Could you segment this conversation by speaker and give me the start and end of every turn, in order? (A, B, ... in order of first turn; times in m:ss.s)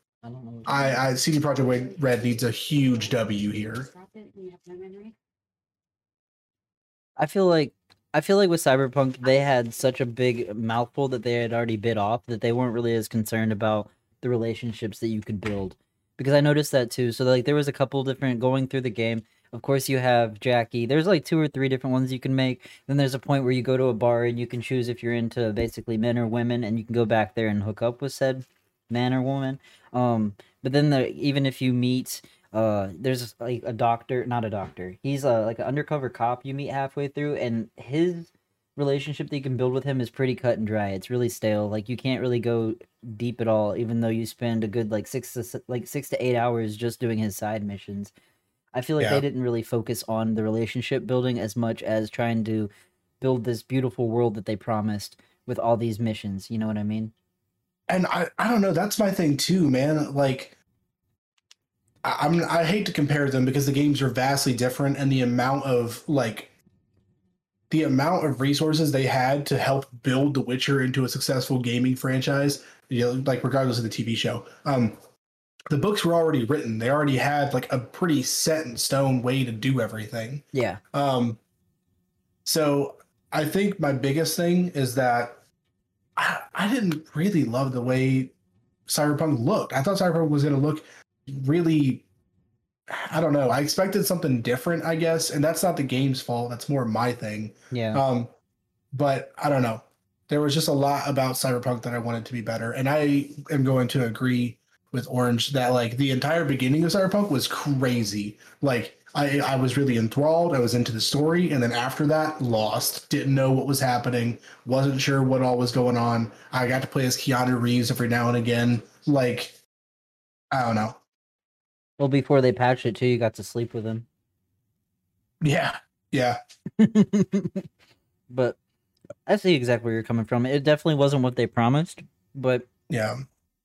0:00.2-0:01.0 A
0:00.7-0:03.9 B
0:00.8-0:05.1 C
0:07.2-0:48.1 A
0:48.7-0:52.7 A
0:49.0-0:49.2 B
0:53.2-0:57.1 A
0:57.9-1:00.5 B
1:02.0-1:06.5 B
1:07.7-1:15.0 B
1:15.7-1:21.4 B
1:20.5-1:20.8 A
1:22.4-1:25.4 B
1:26.2-1:28.3 B
1:28.9-1:32.0 B
1:32.9-1:38.3 B
1:37.7-1:38.0 A
1:38.9-1:59.6 B
2:00.5-2:01.0 B
2:02.0-2:04.1 A
2:05.4-2:06.4 B
2:06.8-2:07.7 A
2:08.3-2:08.6 A
2:09.3-2:12.6 A
2:12.9-2:13.2 B